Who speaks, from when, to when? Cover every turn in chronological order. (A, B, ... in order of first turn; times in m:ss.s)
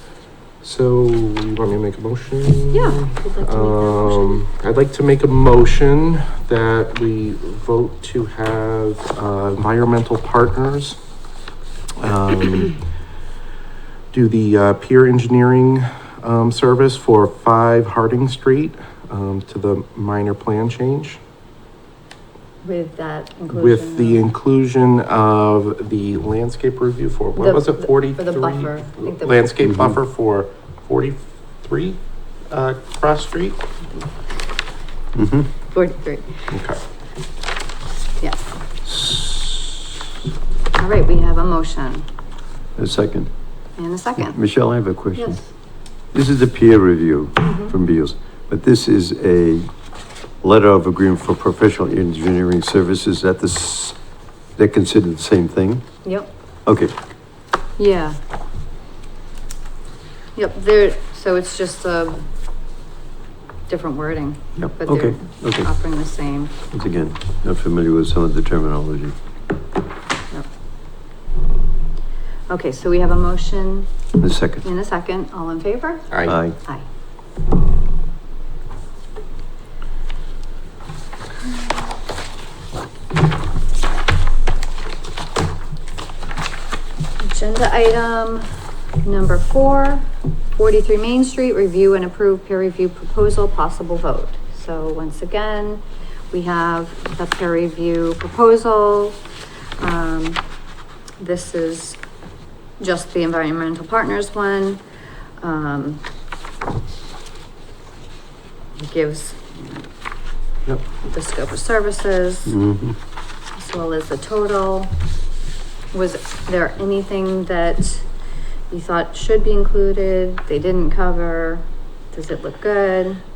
0:00.6-0:11.0 A
0:02.7-0:04.4 B
0:12.0-0:12.7 A
0:14.1-0:21.2 A
0:22.6-0:24.3 B
0:23.5-0:32.0 A
0:27.4-0:29.5 B
0:32.5-0:33.6 A
0:35.2-0:35.5 C
0:35.7-0:36.3 B
0:36.5-0:36.8 A
0:38.9-0:39.6 A
0:40.8-0:42.1 B
0:42.8-0:43.3 C
0:43.8-0:44.4 B
0:44.3-0:45.4 C
0:45.2-0:45.5 B
0:46.1-0:49.7 C
0:47.4-0:47.7 B
0:50.4-0:54.0 C
0:54.6-0:55.8 C
0:56.7-0:56.9 C
0:57.8-0:58.2 B
1:00.4-1:02.2 B
1:03.7-1:06.5 B
1:04.6-1:05.7 C
1:06.7-1:09.2 C
1:12.5-1:13.9 B
1:14.2-1:14.6 C
1:14.6-1:16.8 B
1:16.3-1:16.6 C
1:27.2-1:28.5 B
1:29.0-1:39.2 B
1:39.8-1:40.4 B
1:41.2-1:42.0 B
1:42.8-1:44.8 B
1:45.4-1:46.0 B
1:48.8-1:49.6 B
1:50.7-1:52.6 B
1:52.5-1:53.0 C
1:53.6-1:54.9 B
1:55.9-1:58.0 B
1:58.7-2:03.2 B